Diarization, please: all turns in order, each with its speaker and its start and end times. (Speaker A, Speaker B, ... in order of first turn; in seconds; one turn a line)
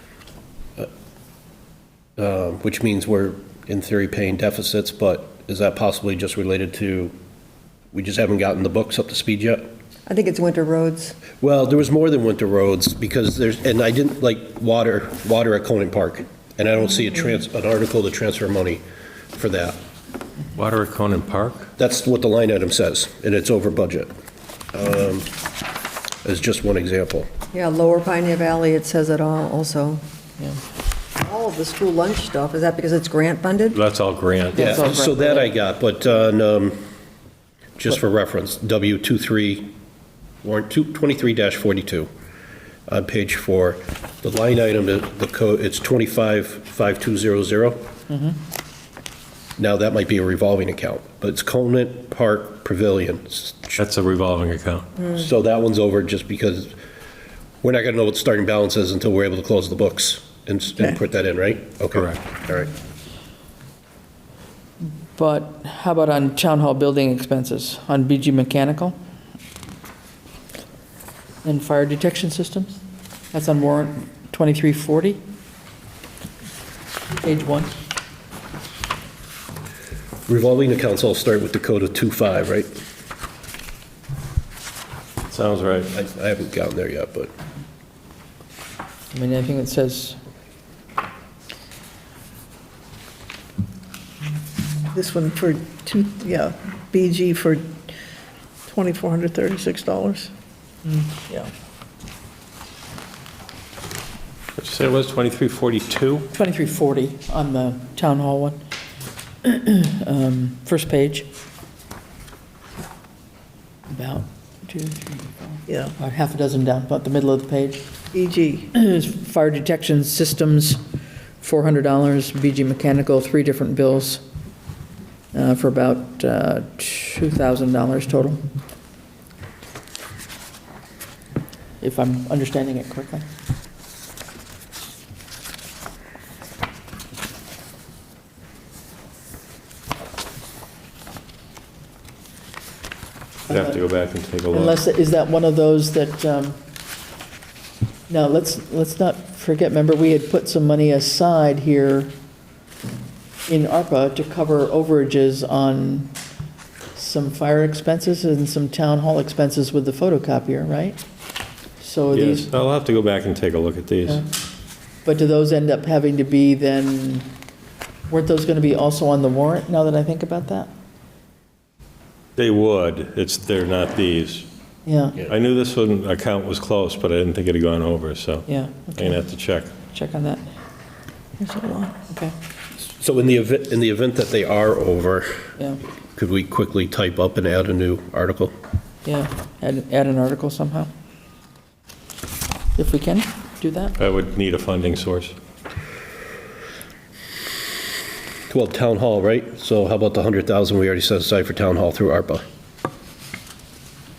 Speaker A: 2.2-7.1
Speaker A: 7.9-9.7
Speaker B: 10.1-11.2
Speaker A: 11.4-18.8
Speaker A: 19.4-19.8
Speaker C: 20.6-21.7
Speaker A: 21.8-24.1
Speaker A: 24.7-25.3
Speaker A: 26.2-27.3
Speaker B: 27.5-30.0
Speaker B: 31.2-33.8
Speaker C: 33.7-34.8
Speaker D: 34.5-35.5
Speaker A: 34.5-36.8
Speaker A: 37.8-39.7
Speaker A: 40.4-42.1
Speaker A: 42.9-47.8
Speaker D: 48.1-48.4
Speaker A: 49.6-53.8
Speaker C: 53.8-54.9
Speaker A: 55.1-56.8
Speaker A: 57.6-62.7
Speaker C: 61.9-62.2
Speaker D: 65.2-69.0
Speaker D: 71.4-72.8
Speaker D: 73.3-75.2
Speaker D: 77.2-77.7
Speaker A: 80.3-82.7
Speaker C: 85.3-85.9
Speaker A: 85.9-87.3
Speaker D: 89.1-90.2
Speaker E: 94.9-97.7
Speaker E: 98.7-100.3
Speaker D: 100.9-101.5
Speaker C: 104.6-106.3
Speaker D: 106.3-108.6
Speaker D: 109.4-111.3
Speaker D: 113.9-117.9
Speaker E: 115.7-115.9
Speaker E: 118.1-118.7
Speaker D: 118.7-120.8
Speaker D: 121.4-124.2
Speaker D: 125.3-128.4
Speaker D: 131.8-133.2
Speaker C: 143.5-144.8
Speaker D: 143.5-143.8
Speaker D: 144.5-146.6
Speaker D: 148.1-152.2
Speaker D: 153.5-156.2
Speaker D: 156.9-161.0
Speaker D: 161.8-162.5
Speaker C: 162.1-164.2
Speaker D: 165.1-167.3
Speaker D: 168.1-170.7
Speaker C: 172.4-174.5
Speaker D: 174.9-175.2
Speaker C: 175.3-179.7
Speaker D: 178.5-179.2
Speaker D: 179.9-180.4
Speaker B: 181.4-182.0
Speaker D: 182.1-182.3
Speaker A: 182.9-185.4
Speaker A: 186.2-188.5
Speaker D: 189.1-190.9
Speaker D: 192.8-194.0
Speaker C: 194.0-195.3
Speaker A: 198.5-202.4